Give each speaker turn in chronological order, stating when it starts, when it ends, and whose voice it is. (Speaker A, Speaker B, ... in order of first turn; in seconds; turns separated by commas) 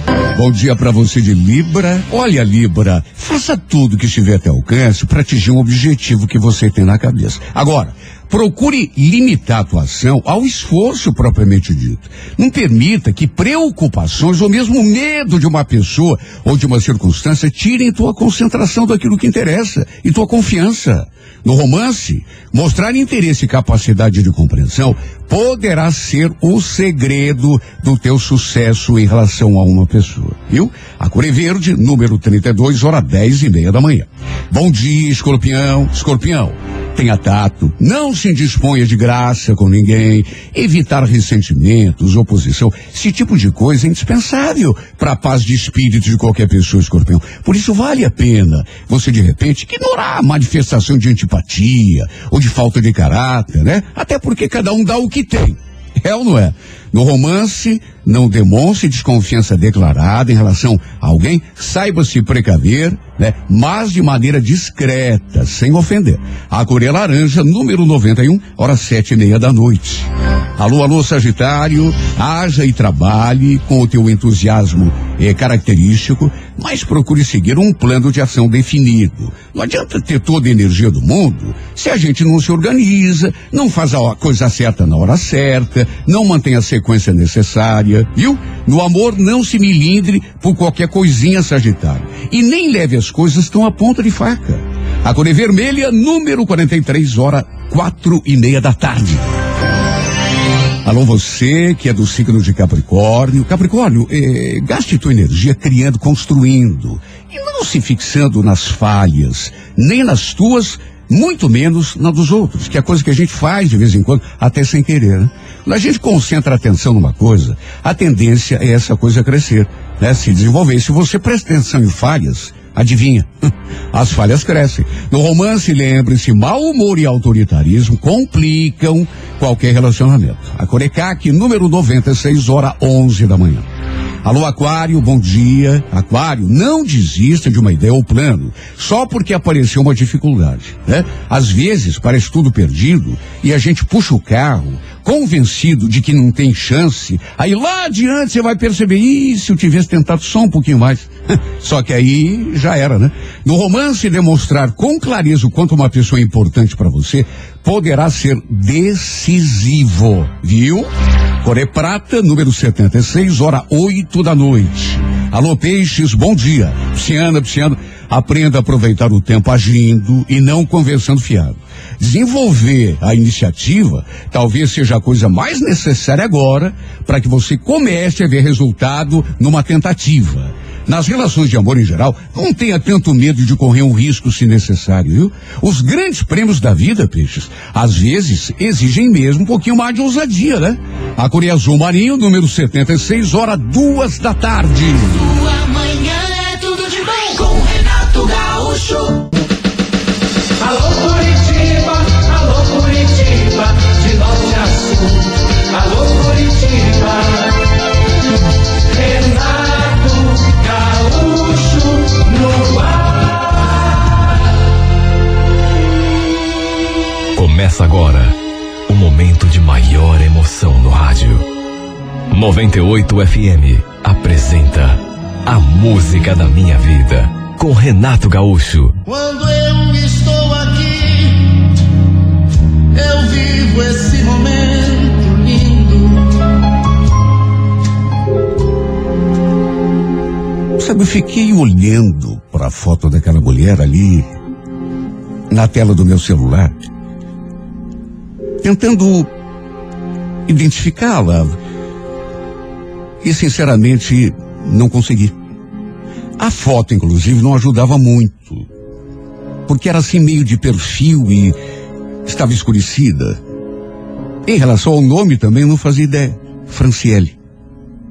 Speaker A: 0.3-99.2, Speaker A: 100.8-123.3, Speaker A: 123.9-133.7, Speaker A: 134.2-160.9, Speaker A: 161.4-195.3, Speaker B: 195.3-199.3, Speaker C: 200.8-205.2, Speaker B: 201.0-207.1, Speaker C: 205.8-207.2, Speaker C: 209.0-210.1, Speaker B: 209.1-212.6, Speaker C: 210.7-213.1, Speaker D: 217.3-221.5, Speaker D: 222.3-229.0, Speaker E: 229.1-231.8, Speaker E: 232.9-236.5, Speaker A: 240.8-244.3, Speaker A: 245.5-246.8, Speaker A: 248.6-249.3, Speaker A: 250.5-251.6, Speaker A: 253.2-255.3, Speaker A: 256.4-258.7, Speaker A: 259.7-261.6, Speaker A: 262.3-263.4, Speaker A: 264.4-267.4